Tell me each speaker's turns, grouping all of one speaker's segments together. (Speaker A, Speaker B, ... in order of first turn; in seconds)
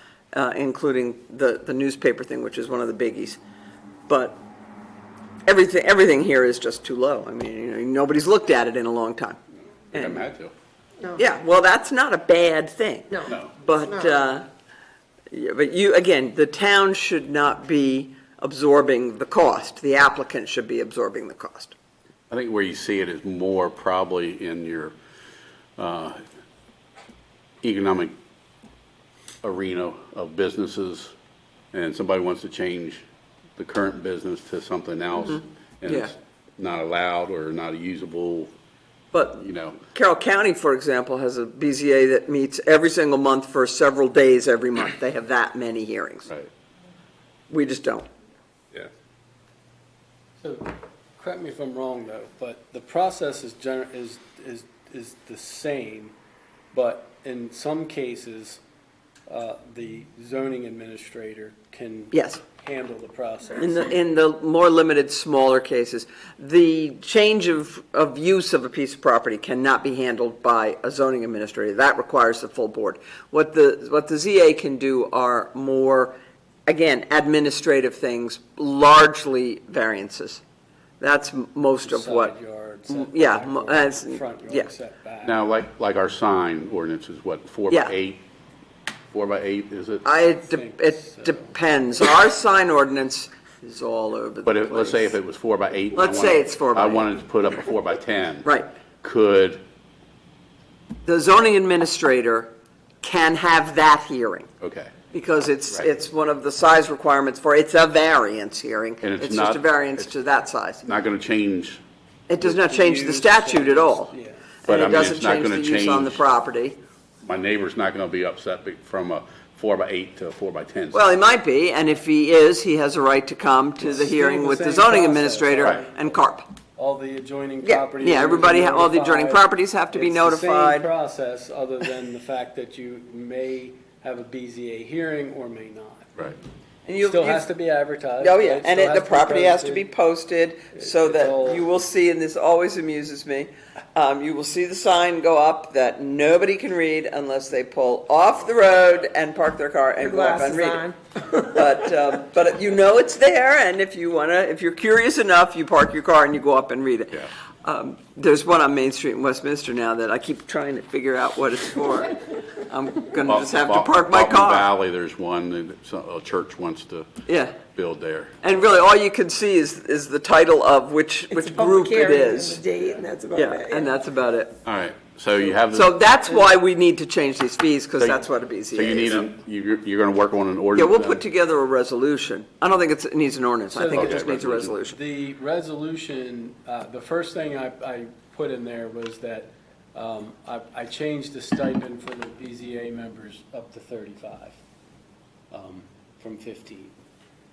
Speaker A: 0.3-3.4, 4.1-4.4, 5.5-9.4, 9.9-10.2, 11.2-14.5, 15.3-21.7, 35.3-36.1, 39.1-46.3, 47.5-48.1, 62.1-62.4, 63.6-80.4, 81.0-82.3, 82.9-84.7, 87.7-87.9, 90.0-95.2, 95.9-97.1, 98.4-98.7, 101.1-104.5, 105.1-110.8, 112.3-114.1, 114.7-116.8, 120.9-126.5, 127.6-130.9, 136.8-137.5, 138.2-164.7, 167.3-167.6, 168.4-172.6, 173.3-174.6, 175.7-179.3, 180.8-185.0
Speaker B: 9.9-10.5, 22.3-24.9, 25.8-26.2, 27.6-28.1, 29.4-31.1, 31.7-33.0, 33.6-38.5, 39.4-39.8, 85.2-88.2, 89.1-90.0, 94.5-98.5, 99.0-99.6, 104.6-104.9, 109.0-109.7, 110.8-111.8, 114.7-116.2, 117.2-121.0, 163.3-167.1, 167.8-168.4, 174.7-175.9, 178.7-181.2, 183.9-184.7
Speaker C: 13.8-14.1, 150.0-151.5, 171.3-173.9
Speaker D: 50.4-56.1, 56.7-58.6, 59.3-63.9, 81.8-85.4, 90.2-91.5, 112.4-114.5, 123.9-126.2, 126.8-136.3, 137.0-139.9, 140.8-141.7, 183.7-184.3, 184.8-194.6, 195.5-196.9